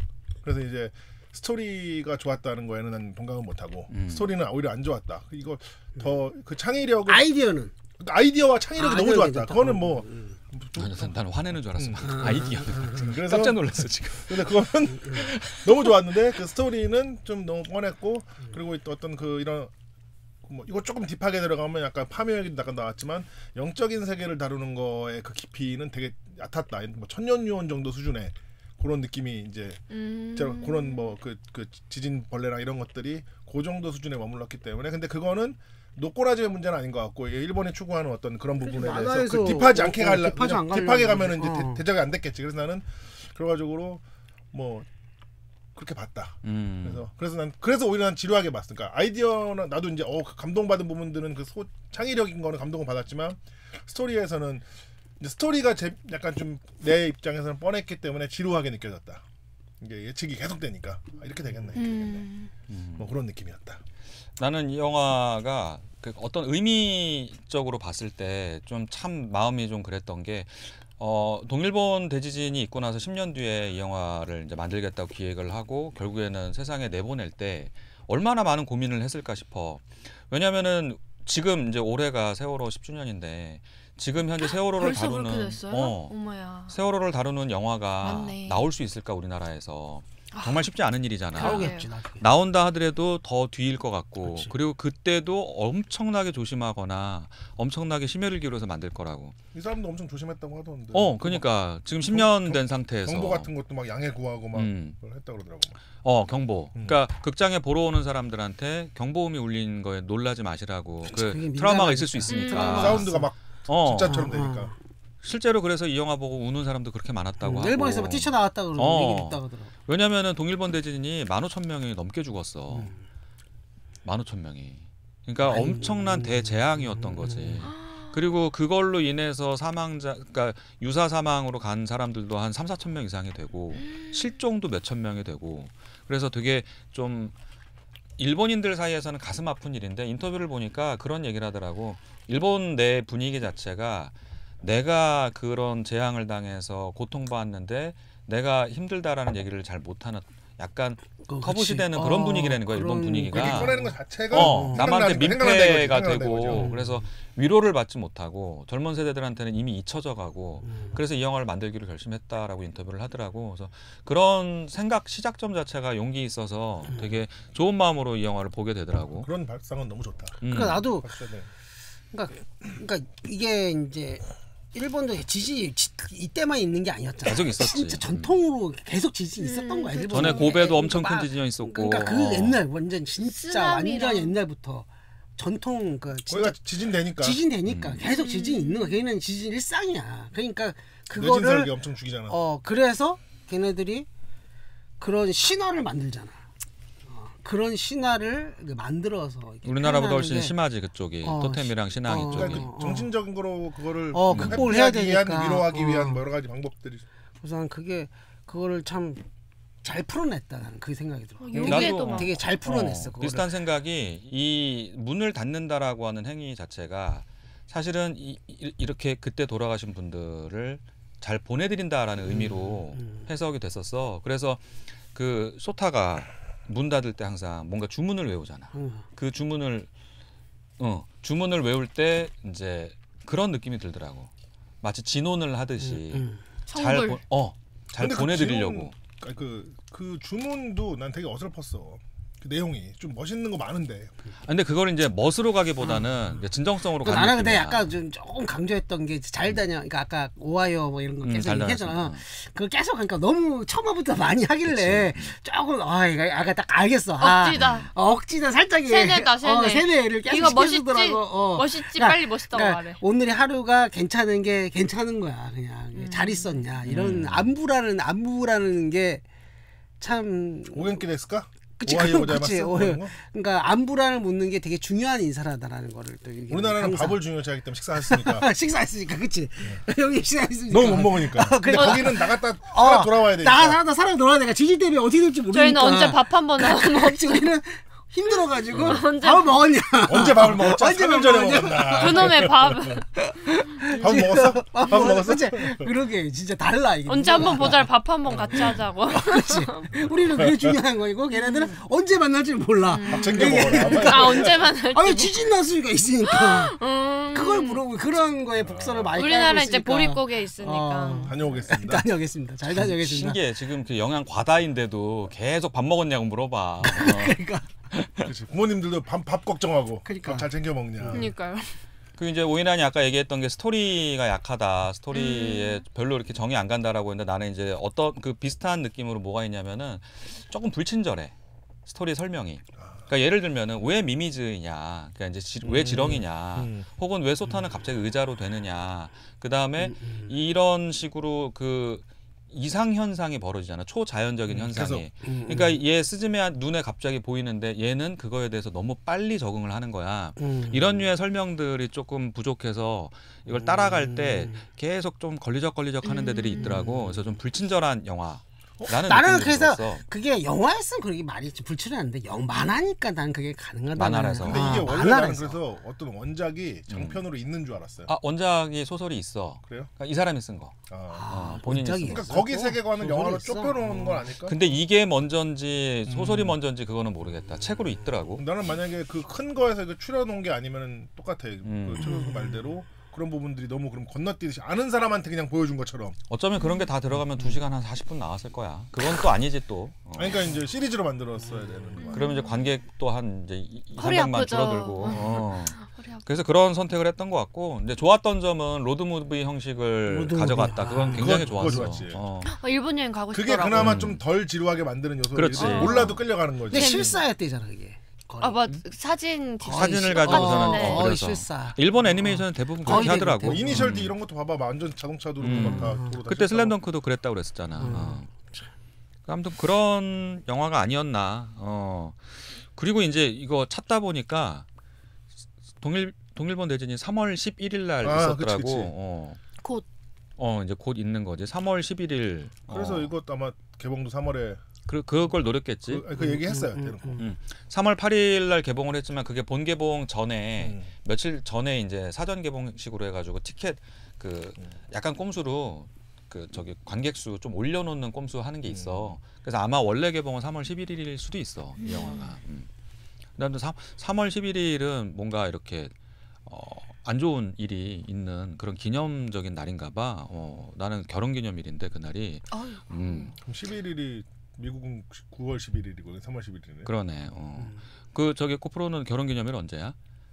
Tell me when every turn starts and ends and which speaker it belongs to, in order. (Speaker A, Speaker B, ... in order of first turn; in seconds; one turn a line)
Speaker A: 0.4-7.2
Speaker B: 3.9-4.3
Speaker C: 7.0-7.7
Speaker A: 8.0-11.1
Speaker C: 8.8-10.4
Speaker B: 10.7-14.4
Speaker A: 11.8-19.7
Speaker C: 12.2-12.5
Speaker B: 15.1-15.9
Speaker A: 20.4-29.8
Speaker D: 29.9-31.1
Speaker A: 30.3-44.9
Speaker C: 38.6-41.8
Speaker A: 45.7-54.6
Speaker B: 46.4-47.0
Speaker A: 55.2-59.2
Speaker A: 59.8-62.2
Speaker D: 61.7-62.5
Speaker B: 62.7-63.1
Speaker A: 63.0-63.8
Speaker B: 64.4-86.1
Speaker D: 84.4-86.8
Speaker B: 86.7-99.3
Speaker D: 88.0-88.7
Speaker D: 90.3-90.6
Speaker D: 91.3-91.9
Speaker C: 91.3-92.2
Speaker C: 94.2-94.5
Speaker A: 99.5-101.5
Speaker B: 100.9-103.5
Speaker A: 102.1-105.8
Speaker B: 104.5-105.0
Speaker B: 106.0-113.2
Speaker A: 106.7-107.0
Speaker C: 111.0-113.3
Speaker D: 112.3-113.0
Speaker A: 112.5-114.7
Speaker B: 113.7-114.3
Speaker C: 114.1-114.7
Speaker B: 115.2-122.9
Speaker C: 117.4-119.7
Speaker C: 122.7-123.0
Speaker B: 124.0-137.3
Speaker C: 125.4-127.7
Speaker D: 127.6-128.1
Speaker D: 133.8-134.3
Speaker B: 138.2-153.8
Speaker C: 151.2-154.9
Speaker A: 153.3-156.8
Speaker B: 154.3-169.3
Speaker C: 156.5-157.0
Speaker C: 160.6-161.0
Speaker A: 169.2-170.4
Speaker B: 170.4-170.9
Speaker C: 170.5-171.1
Speaker A: 171.0-171.5
Speaker C: 172.1-186.6
Speaker B: 177.2-178.3
Speaker D: 179.4-180.6
Speaker B: 180.1-182.6
Speaker D: 183.2-184.4
Speaker A: 186.3-187.4
Speaker C: 187.2-191.7
Speaker B: 187.7-188.0
Speaker D: 188.1-189.0
Speaker A: 191.1-192.4
Speaker C: 192.3-194.1
Speaker C: 195.0-196.4
Speaker C: 197.1-200.5
Speaker B: 199.6-202.7
Speaker C: 201.2-203.1
Speaker A: 202.2-207.0
Speaker C: 204.1-206.2
Speaker B: 204.3-204.7
Speaker C: 207.4-209.2
Speaker C: 209.8-213.5
Speaker D: 211.4-212.3
Speaker B: 211.6-229.9
Speaker C: 222.2-223.3
Speaker C: 228.7-229.0
Speaker B: 230.8-234.3
Speaker B: 234.8-238.9
Speaker C: 235.8-236.4
Speaker D: 236.7-237.2
Speaker A: 238.0-244.1
Speaker B: 244.4-247.9
Speaker C: 245.8-246.4
Speaker C: 247.0-269.2
Speaker B: 251.2-252.2
Speaker B: 254.6-255.3
Speaker D: 257.2-257.9
Speaker B: 257.5-257.9
Speaker D: 258.9-263.0
Speaker D: 265.9-266.6
Speaker B: 266.8-267.5
Speaker C: 270.0-271.0
Speaker A: 270.7-273.1
Speaker C: 271.8-277.2
Speaker A: 276.5-278.4
Speaker C: 278.0-306.8
Speaker A: 280.7-283.8
Speaker D: 281.7-281.9
Speaker D: 285.5-287.5
Speaker A: 288.7-289.0
Speaker D: 288.7-289.6
Speaker A: 290.1-293.0
Speaker D: 291.9-293.1
Speaker D: 293.9-294.2
Speaker A: 293.9-295.9
Speaker D: 297.1-300.1
Speaker A: 298.3-298.8
Speaker A: 300.4-300.7
Speaker D: 301.3-301.7
Speaker D: 302.9-305.4
Speaker A: 303.1-304.6
Speaker D: 306.2-307.8
Speaker C: 307.3-313.4
Speaker A: 308.6-309.2
Speaker D: 309.1-311.4
Speaker A: 311.1-312.1
Speaker B: 312.7-318.3
Speaker C: 316.8-317.7
Speaker A: 318.2-321.3
Speaker C: 320.0-321.3
Speaker D: 321.1-321.8
Speaker B: 322.2-331.3
Speaker D: 325.1-325.8
Speaker B: 331.9-360.0
Speaker A: 335.6-336.9
Speaker C: 339.8-340.3
Speaker A: 344.5-345.1
Speaker C: 345.2-345.8
Speaker C: 350.4-351.1
Speaker C: 353.5-354.6
Speaker D: 356.0-356.8
Speaker C: 356.6-357.4
Speaker C: 358.9-365.6
Speaker B: 363.9-364.9
Speaker A: 364.4-368.1
Speaker B: 366.9-367.2
Speaker B: 368.1-370.8
Speaker A: 370.9-374.6
Speaker C: 371.1-374.3
Speaker B: 371.3-372.4
Speaker B: 374.4-378.4
Speaker A: 376.1-376.4
Speaker A: 378.3-386.2
Speaker B: 381.6-382.1
Speaker C: 382.0-382.7
Speaker B: 386.3-390.5
Speaker A: 390.1-392.3
Speaker D: 392.0-392.6
Speaker B: 392.1-402.5
Speaker D: 394.0-396.2
Speaker A: 395.1-395.4
Speaker C: 400.1-401.9
Speaker A: 401.0-402.2
Speaker D: 402.4-404.1
Speaker A: 403.3-407.1
Speaker B: 403.7-404.2
Speaker B: 405.3-406.2
Speaker D: 405.5-407.2
Speaker C: 406.7-408.7
Speaker D: 408.4-411.1
Speaker C: 409.6-414.0
Speaker B: 409.6-414.1
Speaker A: 412.9-416.8
Speaker B: 415.4-418.3
Speaker C: 415.5-416.2
Speaker C: 417.8-418.2
Speaker B: 419.3-424.6
Speaker B: 425.8-429.4
Speaker A: 428.0-428.9
Speaker B: 430.4-433.1
Speaker A: 432.7-434.6
Speaker B: 434.9-436.0
Speaker A: 435.9-437.2
Speaker C: 436.1-437.2
Speaker B: 437.2-452.7
Speaker A: 440.6-440.9
Speaker A: 448.7-449.2
Speaker D: 451.8-452.3
Speaker B: 453.4-455.9
Speaker B: 456.4-463.3
Speaker D: 462.5-463.3
Speaker A: 463.4-466.9
Speaker B: 466.8-469.9